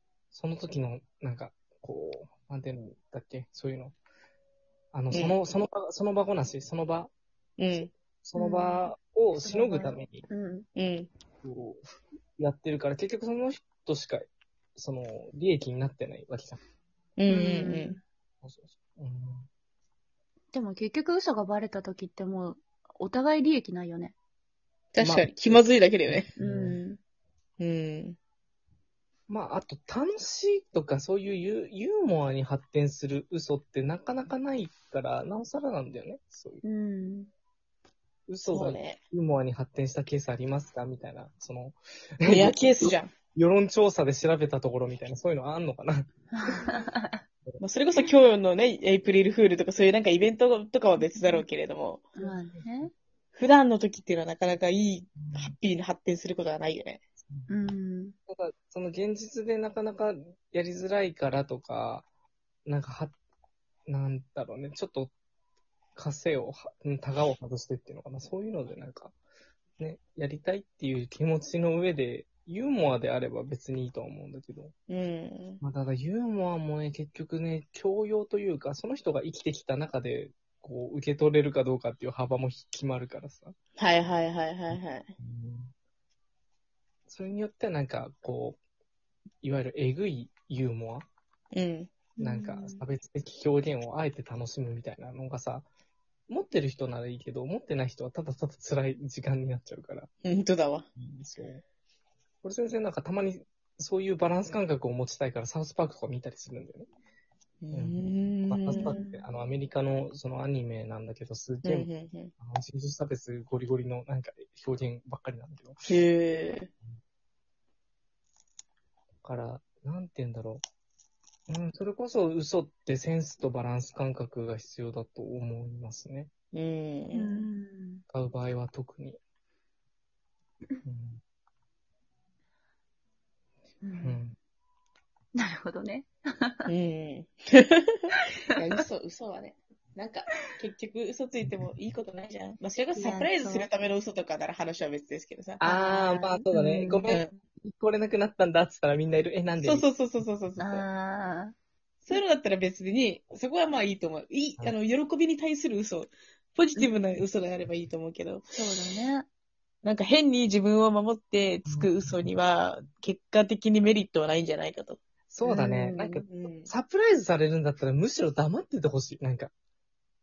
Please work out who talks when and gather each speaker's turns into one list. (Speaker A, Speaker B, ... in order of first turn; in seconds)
Speaker A: 0.3-4.0, 4.9-7.1, 8.2-10.2, 11.4-16.6, 18.4-19.5, 25.0-26.8, 29.3-36.6, 38.3-46.6, 52.2-52.9, 55.2-55.5, 58.3-62.0, 62.6-63.1, 63.9-65.1, 66.0-69.1, 69.8-74.7, 75.6-83.5, 84.7-85.7, 87.1-88.6, 89.4-91.1, 92.2-95.7, 96.3-100.1, 101.0-101.6, 102.4-106.9, 107.7-115.8, 119.2-120.6, 121.5-126.3, 128.1-129.2, 130.8-131.2, 134.0-134.3, 145.6-149.9, 161.7-162.3, 165.3-169.5
Speaker B: 7.6-7.9, 10.8-11.1, 17.2-18.0, 24.9-26.3, 27.6-28.1, 38.5-39.0, 42.2-43.1, 47.6-52.1, 53.4-57.0, 74.9-75.6, 83.8-85.1, 91.5-91.9, 100.2-100.9, 107.6-109.0, 111.6-112.3, 115.9-116.7, 126.5-127.5, 136.7-145.6, 147.1-147.4, 149.6-150.8, 152.0-158.5, 159.8-166.7
Speaker C: 8.3-10.7, 17.3-18.0, 20.5-24.1, 26.4-27.0, 36.6-37.3, 46.3-47.2, 51.0-51.4, 52.1-52.9, 57.5-58.1, 92.2-92.8, 108.7-109.3, 127.1-128.0, 133.8-134.2, 135.3-136.7, 138.1-138.6, 142.9-143.7, 145.6-147.2, 150.6-151.5, 158.5-159.3, 165.4-166.1